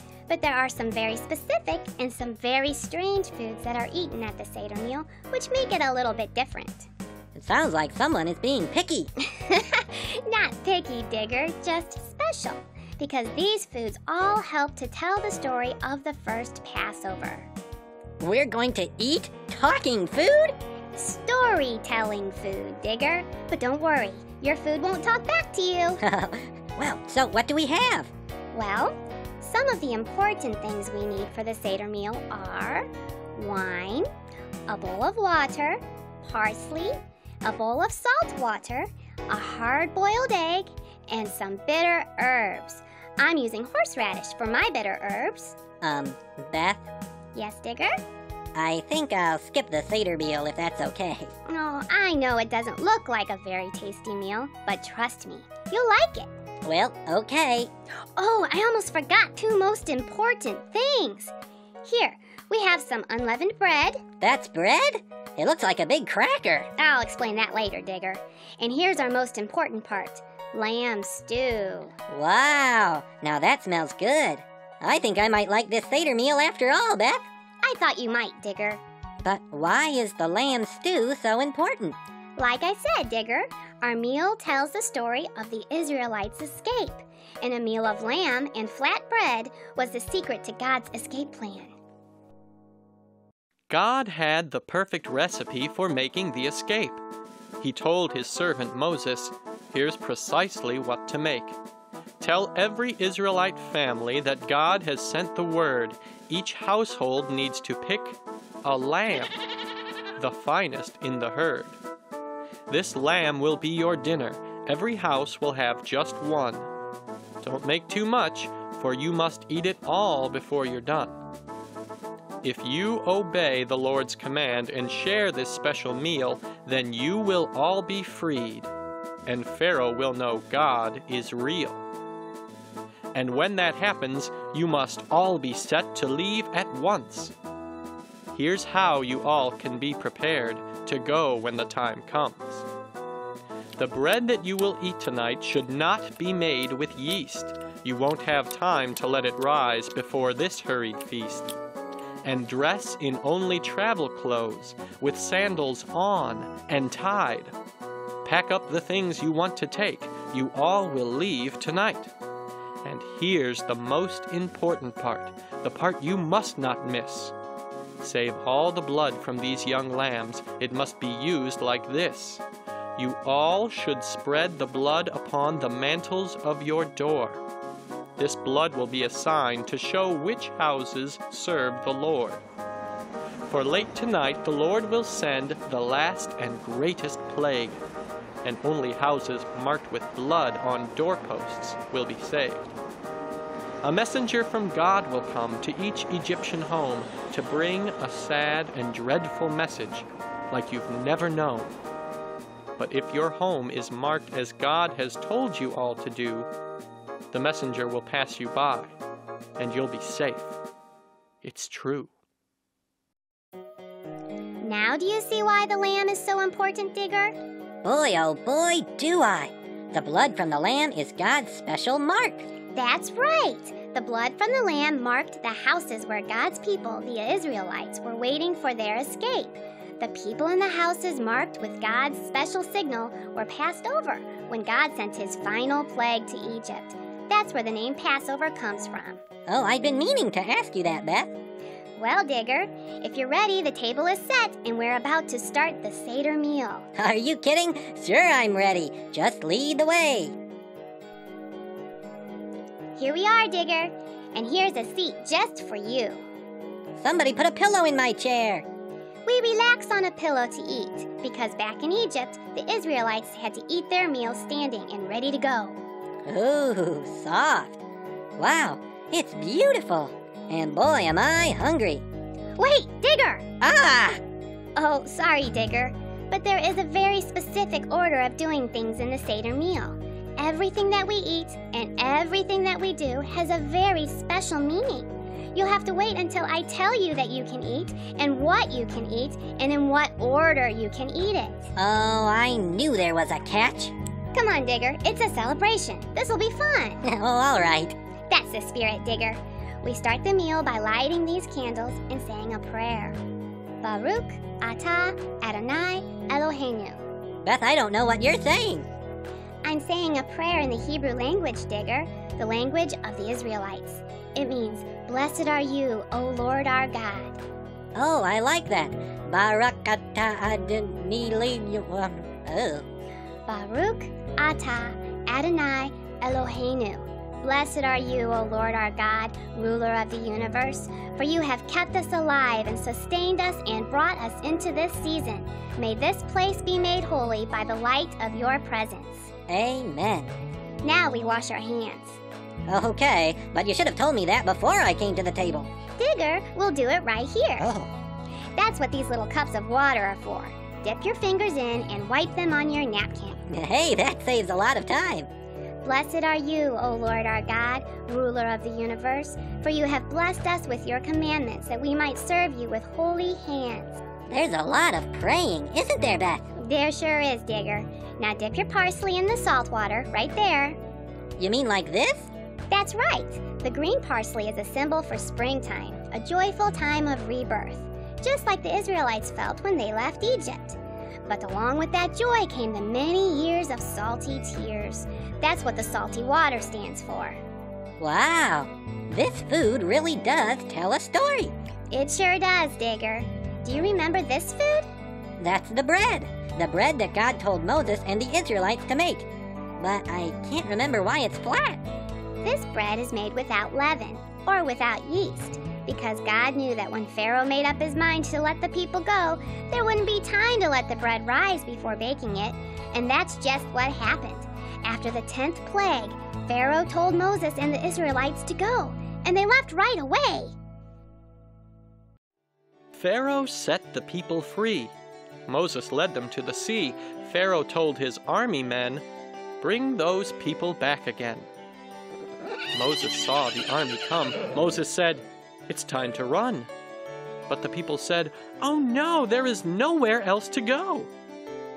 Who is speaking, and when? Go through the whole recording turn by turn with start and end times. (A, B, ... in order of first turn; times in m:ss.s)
0:00.3-0:06.9 A
0:07.3-0:09.1 B
0:09.2-0:17.5 A
0:18.2-0:20.6 B
0:21.0-0:26.0 A
0:26.0-0:28.1 B
0:28.5-0:34.1 A
0:34.7-0:45.6 A
0:45.8-0:46.9 B
0:47.4-0:48.0 A
0:48.5-0:51.3 B
0:51.5-0:56.3 A
0:56.6-0:57.7 B
0:58.2-1:01.3 A
1:01.8-1:04.0 A
1:04.2-1:06.7 B
1:06.8-1:12.0 A
1:12.1-1:17.3 B
1:17.6-1:18.8 A
1:19.2-1:22.0 B
1:22.4-1:31.8 A
1:33.7-1:37.0 C
1:37.6-1:41.6 C
1:42.2-1:49.4 C
1:50.2-1:51.8 C
1:52.7-1:56.7 C
1:57.4-2:01.2 C
2:02.4-2:08.7 C
2:09.3-2:11.8 C
2:13.1-2:17.3 C
2:18.3-2:22.7 C
2:23.8-2:31.5 C
2:32.2-2:37.5 C
2:38.2-2:42.1 C
2:42.8-2:47.3 C
2:48.0-2:52.4 C
2:53.0-2:57.4 C
2:58.2-3:02.4 C
3:03.5-3:07.8 C
3:08.4-3:12.7 C
3:13.8-3:21.7 C
3:22.8-3:26.5 C
3:27.3-3:28.9 C
3:29.6-3:30.6 C
3:31.4-3:32.1 C
3:34.6-3:37.4 A
3:37.8-3:42.5 B
3:42.8-3:59.2 A
3:59.5-4:01.3 B
4:02.0-4:06.9 A
4:07.0-4:10.4 B
4:13.0-4:16.3 A
4:17.0-4:18.6 B
4:19.3-4:25.8 A
4:26.3-4:27.8 B
4:28.4-4:32.0 B
4:32.6-4:33.4 A
4:33.6-4:34.2 B
4:34.8-4:51.7 A
4:51.8-4:53.9 B
4:54.3-4:57.0 A
4:57.0-4:58.0 B
4:58.3-5:03.2 A
5:03.8-5:07.0 A
5:07.4-5:08.9 B
5:09.6-5:17.4 A
5:18.0-5:22.9 B
5:23.5-5:39.3 A
5:39.5-5:40.3 B
5:40.8-5:42.2 A
5:42.7-5:45.7 B
5:46.0-5:47.7 A
5:47.6-5:47.9 B
5:48.6-5:53.4 A
5:53.5-5:55.3 B
5:55.8-6:04.0 A
6:04.3-6:06.4 B
6:06.6-6:10.8 A
6:11.4-6:12.3 B
6:12.7-6:27.4 A
6:28.0-6:31.5 B
6:31.9-6:34.9 A
6:35.4-6:39.3 B
6:39.8-6:41.8 B
6:42.4-7:00.5 A
7:02.9-7:04.9 C
7:05.5-7:09.0 C
7:09.6-7:11.5 C
7:12.7-7:16.7 C
7:17.5-7:21.1 C